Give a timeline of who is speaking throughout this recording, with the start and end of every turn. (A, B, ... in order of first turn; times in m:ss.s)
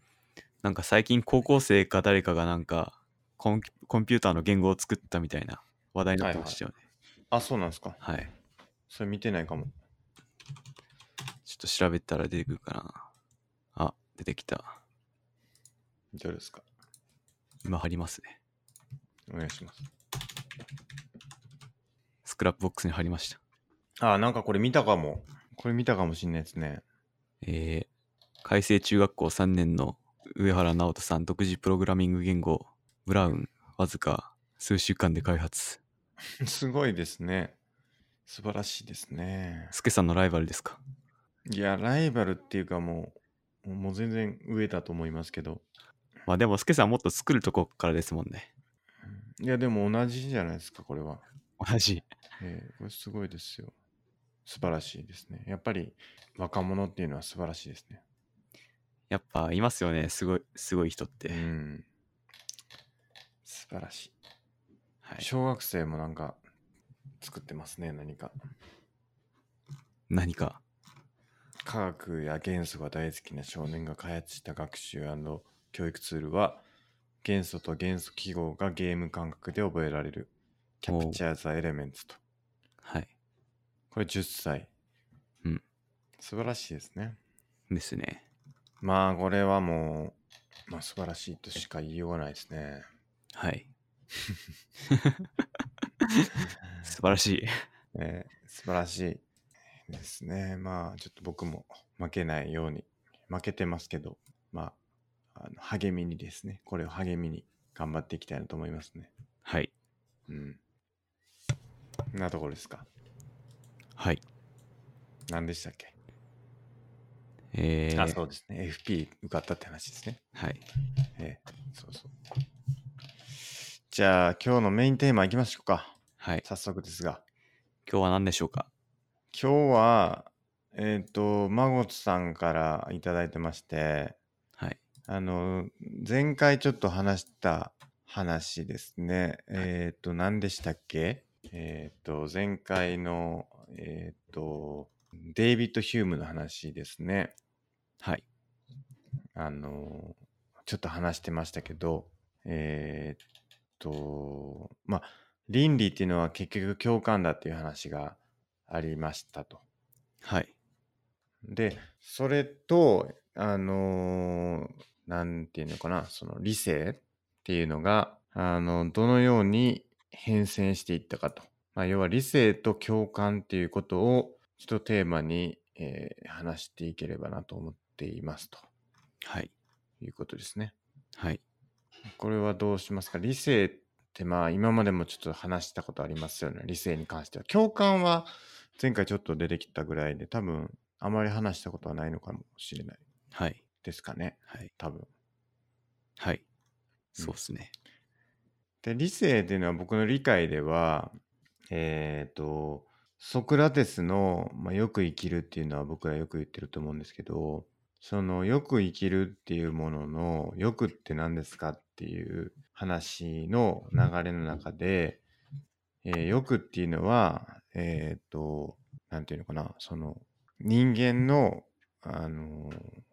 0:00.6-0:06.8 A
0:06.2-0:06.6 B
0:07.3-0:08.0 B
0:08.0-0:08.3 A
0:08.9-0:09.7 B
0:11.4-0:13.1 A
0:13.7-0:14.8 A
0:16.1-0:16.6 B
0:17.6-0:18.4 A
0:19.3-0:19.8 B
0:22.2-0:23.4 A
0:24.0-0:26.8 B
0:27.4-0:27.9 A
0:28.4-0:35.8 A
0:36.4-0:37.6 B
0:38.3-0:39.7 B
0:39.7-0:40.8 A
0:41.4-0:45.6 B
0:46.3-0:48.5 A
0:49.1-0:51.2 B
0:51.6-0:52.0 A
0:52.4-0:53.7 B
0:54.4-0:58.0 B
0:59.1-1:01.4 A
1:01.3-1:01.8 B
1:03.4-1:04.1 B
1:05.2-1:06.4 B
1:07.2-1:08.3 B
1:10.1-1:10.6 A
1:11.6-1:16.6 B
1:17.2-1:20.3 B
1:20.8-1:22.2 B
1:20.9-1:21.2 A
1:22.8-1:23.1 A
1:23.9-1:24.7 B
1:26.2-1:27.2 B
1:27.7-1:28.2 A
1:28.8-1:30.2 B
1:30.7-1:32.8 B
1:33.3-1:33.7 A
1:34.9-1:35.4 A
1:36.0-1:37.5 A
1:37.9-1:39.2 B
1:39.9-1:44.8 B
1:45.3-1:49.1 B
1:49.4-1:49.7 A
1:50.3-1:50.6 B
1:52.1-1:52.9 B
1:54.0-1:54.2 A
1:55.3-1:55.9 B
1:57.5-1:58.2 A
1:57.9-2:00.2 B
2:00.3-2:00.6 A
2:01.2-2:02.1 B
2:03.9-2:07.2 B
2:06.2-2:06.4 A
2:07.8-2:08.7 A
2:09.3-2:14.2 B
2:15.1-2:27.3 B
2:29.4-2:33.2 B
2:33.8-2:39.6 B
2:40.2-2:40.5 A
2:41.4-2:58.7 B
2:59.2-2:59.5 A
3:00.0-3:00.7 B
3:01.2-3:01.4 A
3:02.2-3:13.0 B
3:13.3-3:13.6 A
3:13.8-3:15.1 B
3:16.2-3:16.4 A
3:17.2-3:17.7 A
3:18.8-3:21.2 B
3:21.7-3:35.2 B
3:36.0-3:43.0 B